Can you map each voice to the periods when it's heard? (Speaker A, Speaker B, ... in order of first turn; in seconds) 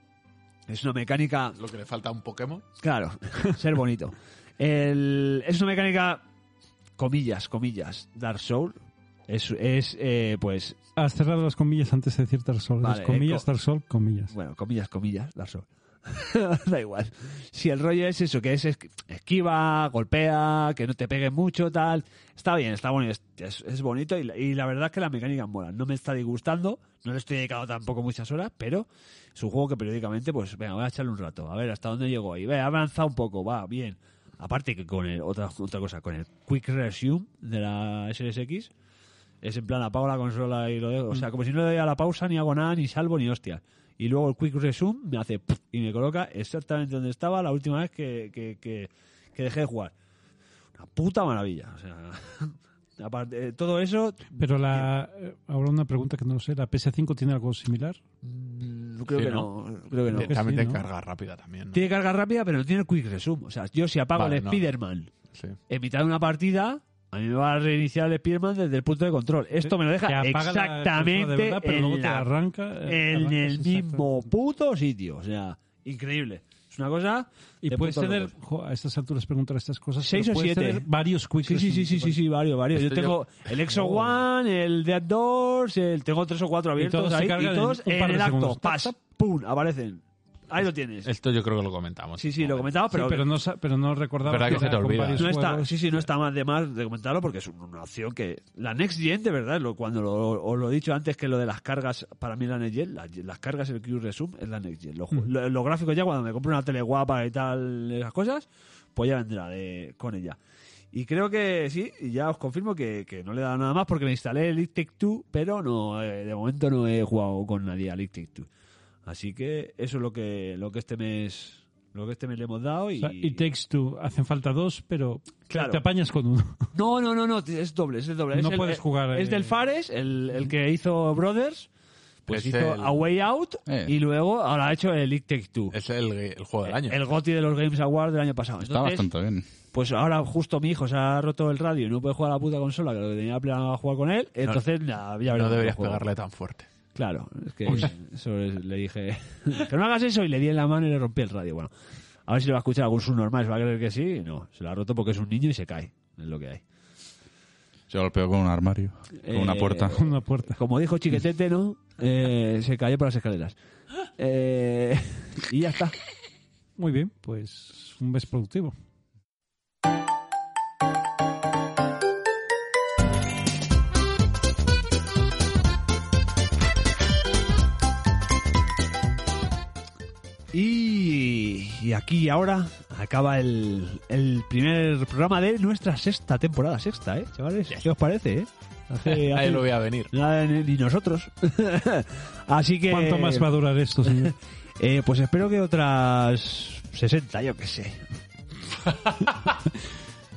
Speaker A: 0.7-1.6, 2.8-6.2, 7.0-10.8, 12.8-13.4, 14.3-38.7, 39.4-49.9, 50.8-54.9, 58.2-60.4, 61.7-65.1, 65.7-72.3, 72.8-78.3, 80.0-80.8, 81.4-91.1, 92.2-93.2, 95.2-110.4, 110.9-118.5, 119.1-123.4, 125.5-125.8, 126.7-131.7, 132.3-135.7, 136.7-139.1, 139.7-146.1, 146.9-151.7, 152.3-156.6, 159.2-163.6, 164.2-165.9, 180.5-193.5, 194.8-198.0
Speaker B: 1.6-2.6, 59.1-59.5, 60.1-61.8, 64.1-64.7, 82.7-84.2, 91.0-92.7, 94.2-95.3, 132.3-133.0, 135.7-137.0, 145.3-146.7, 189.0-190.1, 199.1-199.5
Speaker C: 11.0-14.3, 54.4-58.0, 60.1-60.8, 69.6-74.3, 77.6-82.2, 86.8-88.9, 92.9-95.9, 123.0-126.7, 128.3-129.6, 159.9-160.6, 166.8-168.7, 192.9-194.3
Speaker D: 133.7-133.9, 138.6-139.4, 157.9-160.0